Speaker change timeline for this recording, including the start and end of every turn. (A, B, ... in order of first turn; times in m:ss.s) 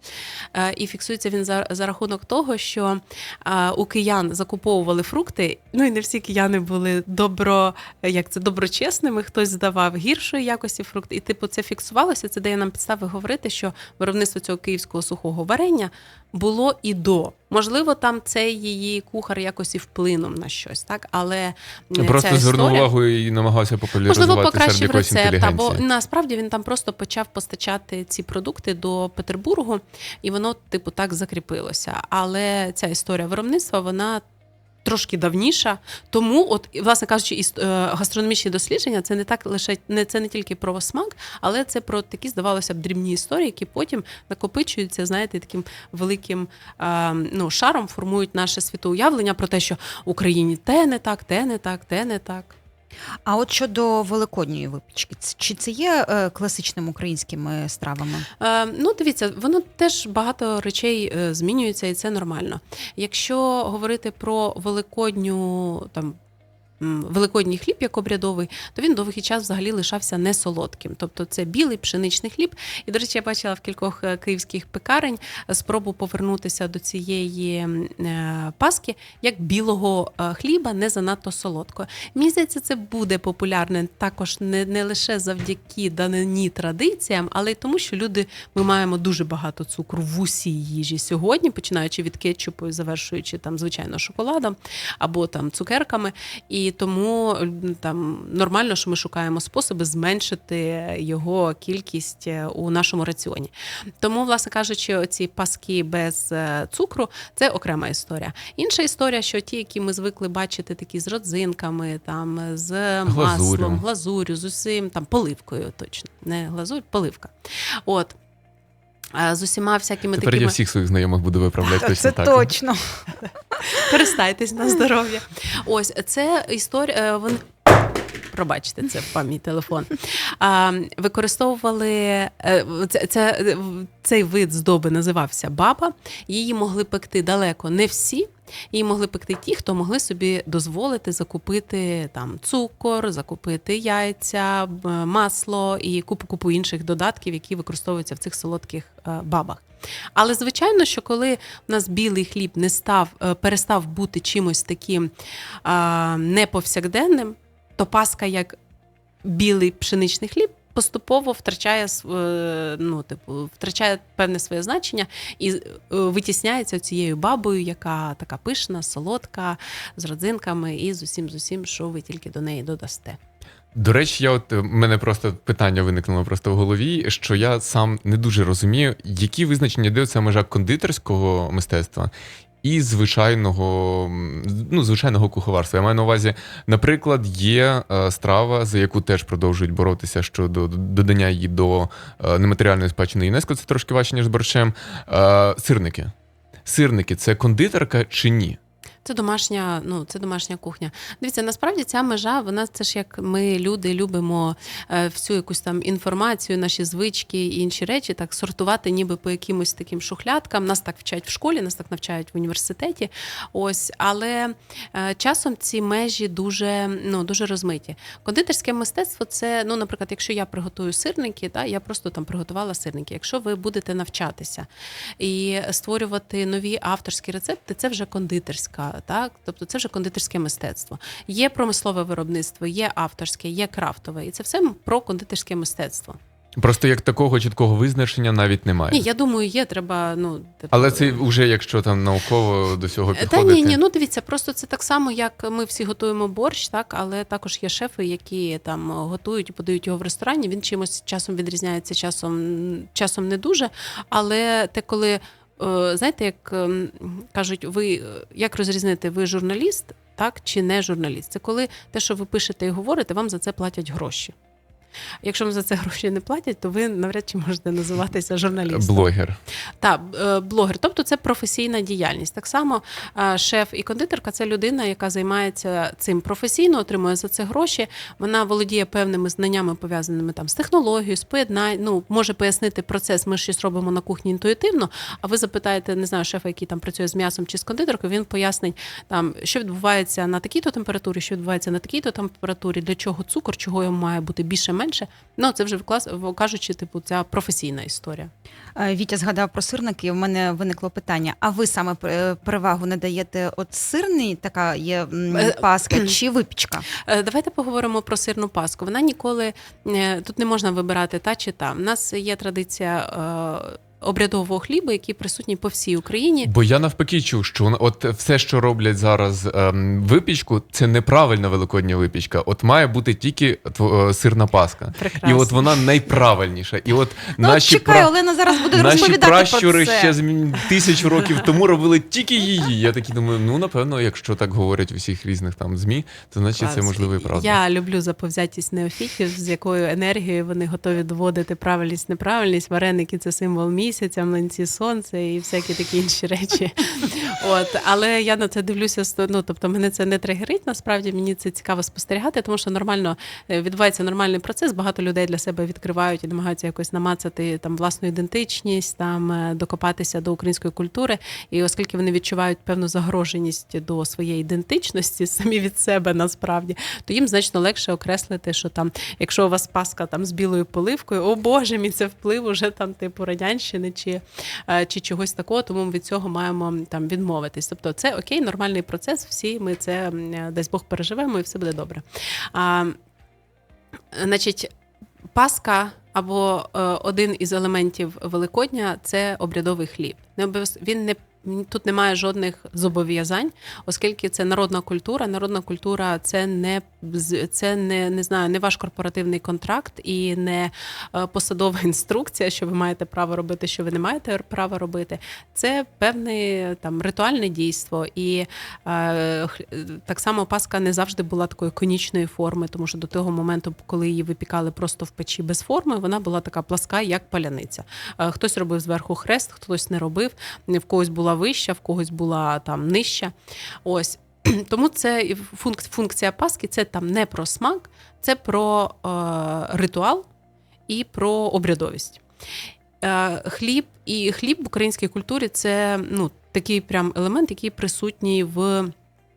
0:00.6-0:22.9 A
0:22.0-0:25.8 B
0:24.1-0:34.2 A
0:34.8-0:52.6 A
0:53.3-0:58.3 C
0:58.4-1:06.2 A
1:06.8-1:57.3 A
1:53.1-1:53.8 B
1:57.9-1:58.2 A
1:59.1-2:00.6 A
2:00.1-2:02.5 B
2:01.6-2:03.8 C
2:03.7-2:29.6 A
2:30.2-2:35.1 A
2:35.6-2:38.6 A
2:39.2-2:53.2 A
2:53.8-3:02.1 B
3:02.6-3:16.1 B
3:16.7-3:18.6 B
3:19.0-3:44.7 A
3:45.2-3:56.2 A
3:56.6-3:59.1 B
3:58.9-4:01.2 A
4:00.7-4:03.8 B
4:03.2-4:24.4 A
4:25.2-4:29.1 A
4:28.7-4:29.4 B
4:29.8-4:58.3 A
4:58.8-5:06.9 C
5:05.3-5:06.1 A
5:07.0-5:16.5 A
5:16.5-5:28.1 B
5:25.0-5:25.8 A
5:27.4-5:30.2 C
5:28.7-5:37.6 B
5:36.6-6:22.0 A
6:22.5-6:23.0 A
6:24.1-6:24.7 A
6:25.3-7:03.3 A
7:03.8-7:10.3 A
7:10.9-7:12.2 A
7:13.0-7:18.9 A